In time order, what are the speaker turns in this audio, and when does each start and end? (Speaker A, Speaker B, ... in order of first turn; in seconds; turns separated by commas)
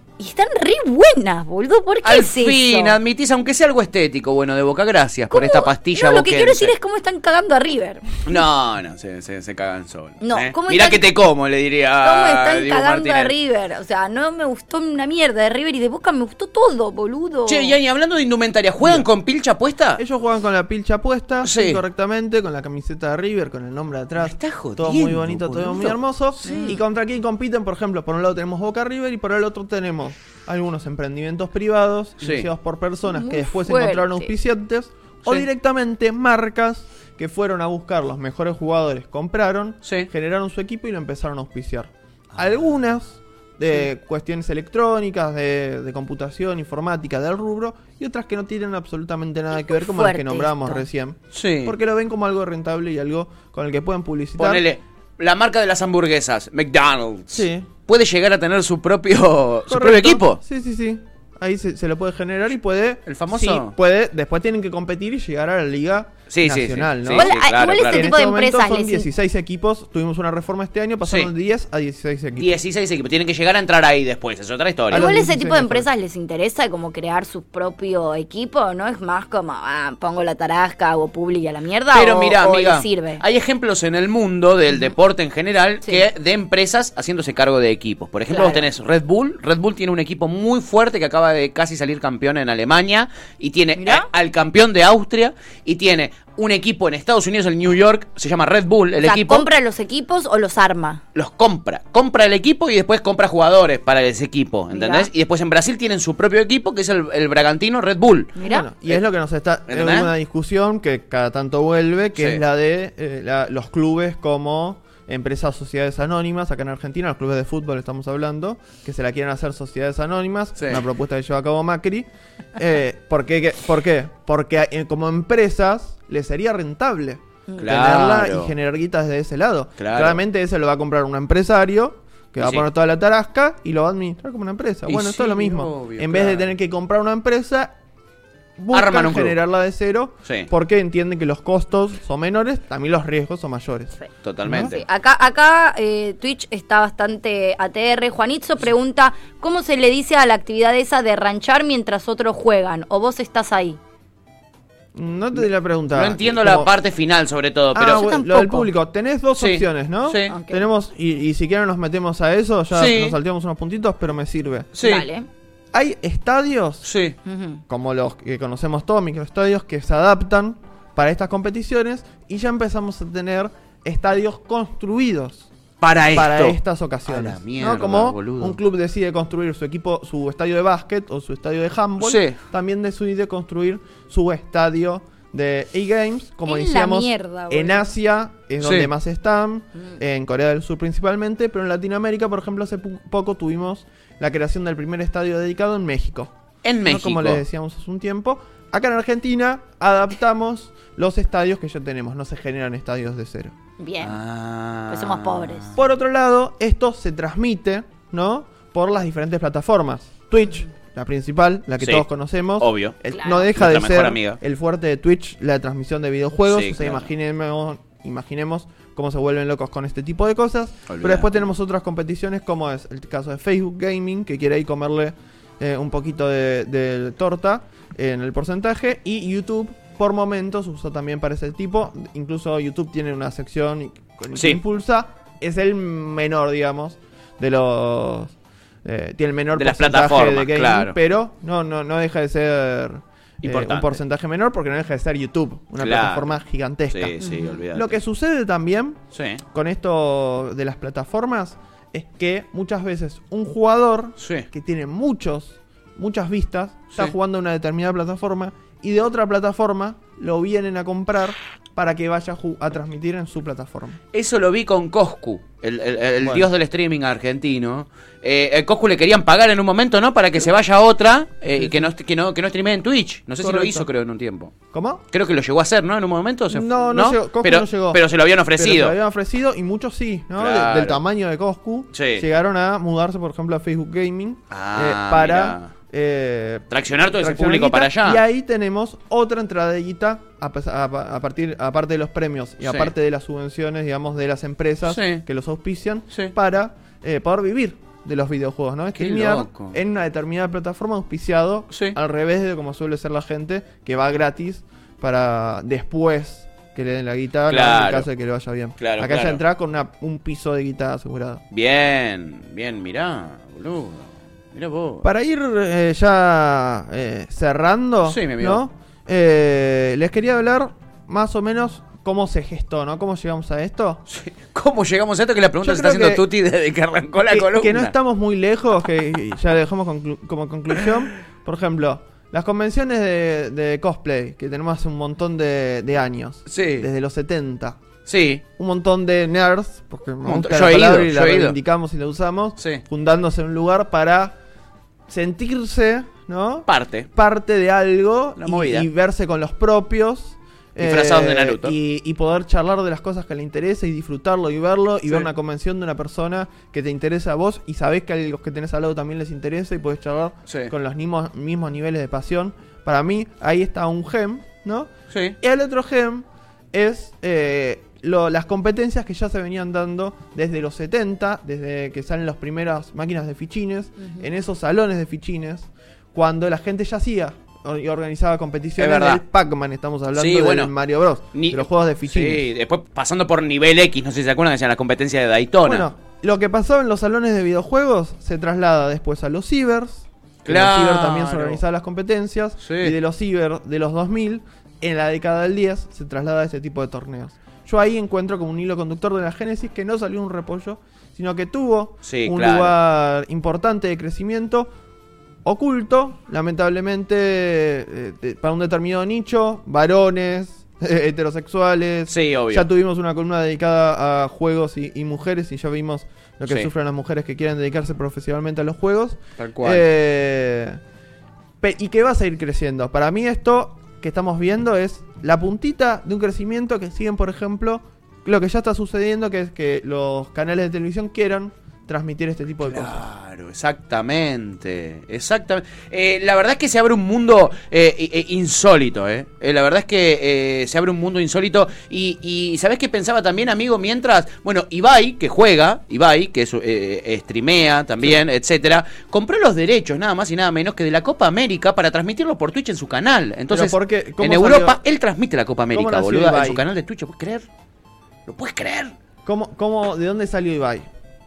Speaker A: 0.2-3.0, Speaker B: 2.0-6.7, Speaker A: 5.3-8.2, Speaker B: 8.2-13.3, Speaker A: 10.2-11.1, Speaker A: 12.0-17.8, Speaker B: 17.5-20.0, Speaker C: 20.0-54.6, Speaker B: 21.4-21.8, Speaker B: 24.2-26.8, Speaker A: 26.4-26.8, Speaker B: 32.2-32.5, Speaker A: 33.1-34.3, Speaker B: 39.8-40.1, Speaker A: 49.6-50.8, Speaker B: 51.3-51.8, Speaker B: 54.4-60.4, Speaker C: 57.3-57.7, Speaker C: 59.7-72.6, Speaker B: 63.1-63.7, Speaker B: 66.3-68.1, Speaker A: 67.2-69.1, Speaker B: 71.0-71.3, Speaker B: 72.4-75.1, Speaker C: 74.9-75.9, Speaker A: 74.9-83.2, Speaker B: 81.9-99.5, Speaker A: 88.3-88.7, Speaker A: 93.8-94.1, Speaker A: 99.0-101.0, Speaker B: 101.2-108.3, Speaker A: 104.7-105.1, Speaker A: 108.4-108.7, Speaker C: 108.4-137.7, Speaker B: 109.7-110.1, Speaker B: 120.6-120.8, Speaker B: 127.6-128.5, Speaker B: 129.8-130.2, Speaker B: 132.4-132.7, Speaker B: 134.9-136.5, Speaker C: 138.6-144.8, Speaker B: 138.7-139.4, Speaker B: 144.2-144.8, Speaker A: 144.6-153.8, Speaker C: 154.9-156.7, Speaker B: 155.9-158.1, Speaker C: 157.7-164.7, Speaker A: 157.8-158.7, Speaker B: 159.4-160.3, Speaker A: 160.3-160.7, Speaker B: 162.7-163.2, Speaker B: 164.8-165.1, Speaker A: 164.8-165.3, Speaker C: 165.7-166.9, Speaker B: 166.8-167.2, Speaker A: 167.2-167.6, Speaker C: 167.7-175.5, Speaker B: 175.8-178.6, Speaker C: 176.1-196.3, Speaker B: 182.0-182.4, Speaker A: 186.5-187.8, Speaker B: 188.6-188.9, Speaker B: 196.6-197.4, Speaker C: 196.8-203.6, Speaker A: 203.8-204.2, Speaker B: 204.0-205.8, Speaker A: 204.9-205.7, Speaker C: 205.8-238.3, Speaker B: 211.8-212.1, Speaker B: 212.6-214.4, Speaker A: 213.1-213.4, Speaker B: 216.5-217.1, Speaker B: 220.9-221.3, Speaker B: 234.3-234.6, Speaker C: 238.8-249.0, Speaker B: 239.6-241.0, Speaker B: 243.4-244.0, Speaker B: 245.8-246.3, Speaker B: 246.9-248.0, Speaker A: 247.2-247.5, Speaker B: 249.1-249.4, Speaker C: 249.5-264.0, Speaker B: 254.2-254.5, Speaker B: 264.1-274.6, Speaker C: 266.2-266.5, Speaker C: 271.6-271.9, Speaker C: 273.4-273.9, Speaker C: 274.7-275.0, Speaker B: 275.1-278.9, Speaker C: 276.5-278.0, Speaker C: 278.6-311.4, Speaker B: 280.4-281.0, Speaker B: 281.9-282.3, Speaker B: 284.5-285.7, Speaker B: 286.7-288.2, Speaker B: 292.6-292.9, Speaker B: 294.9-295.2, Speaker B: 298.9-299.8, Speaker B: 301.7-302.0, Speaker B: 307.5-308.1, Speaker B: 308.8-309.4, Speaker B: 311.5-315.1, Speaker C: 315.0-324.0, Speaker B: 318.1-318.6, Speaker B: 324.1-327.9, Speaker C: 325.6-326.3, Speaker C: 327.3-337.8, Speaker B: 336.5-336.9, Speaker B: 338.1-338.4, Speaker C: 338.6-344.4, Speaker B: 340.2-341.6, Speaker C: 345.1-382.5, Speaker B: 346.7-347.1, Speaker B: 348.4-348.9, Speaker B: 350.8-351.7, Speaker B: 365.1-365.4, Speaker B: 378.8-379.2, Speaker B: 380.1-380.7, Speaker B: 381.3-385.9, Speaker C: 385.6-404.7, Speaker B: 390.4-391.6, Speaker B: 392.6-392.9, Speaker B: 402.0-402.7, Speaker C: 405.4-420.8, Speaker B: 412.1-412.7, Speaker B: 419.4-419.9, Speaker C: 421.6-433.1, Speaker B: 432.6-457.5, Speaker C: 453.5-454.8, Speaker C: 455.7-456.6, Speaker B: 458.3-458.9, Speaker C: 459.2-460.9